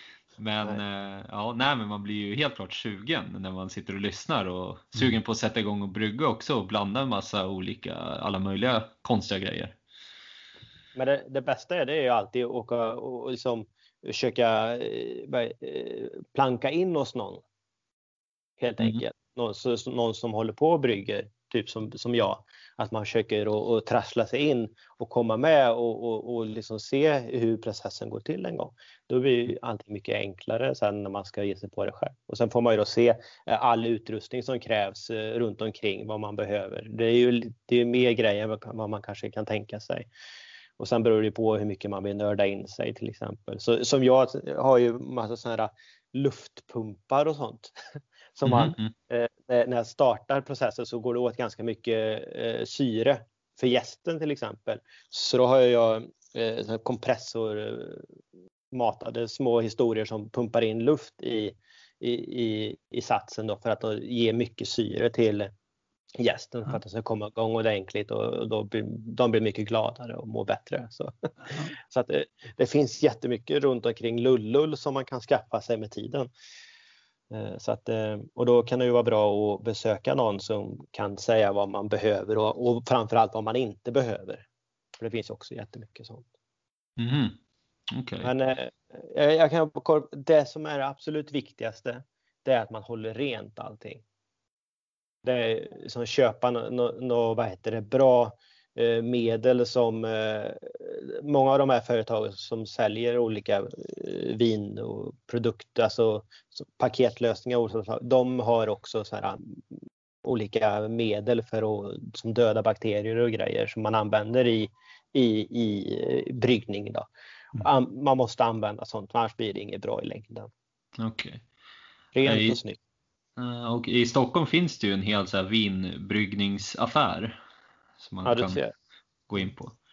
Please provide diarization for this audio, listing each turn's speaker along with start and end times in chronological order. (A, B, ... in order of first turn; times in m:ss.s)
0:00.4-0:09.8 A
0:11.0-0:17.4 B
0:18.6-0:40.1 B
0:40.8-0:47.8 B
0:48.4-0:58.1 B
0:48.4-0:48.9 A
0:58.7-1:05.5 B
1:06.2-1:16.3 B
1:17.3-1:24.4 B
1:25.0-1:26.3 B
1:27.0-1:27.4 A
1:27.9-1:28.3 A
1:28.2-1:34.0 B
1:35.2-1:49.6 B
1:50.2-2:00.5 B
2:01.0-2:01.4 A
2:02.2-2:02.8 B
2:02.2-2:02.6 A
2:03.4-2:07.4 A
2:08.0-2:08.6 A
2:08.2-2:08.7 B
2:09.3-2:09.8 A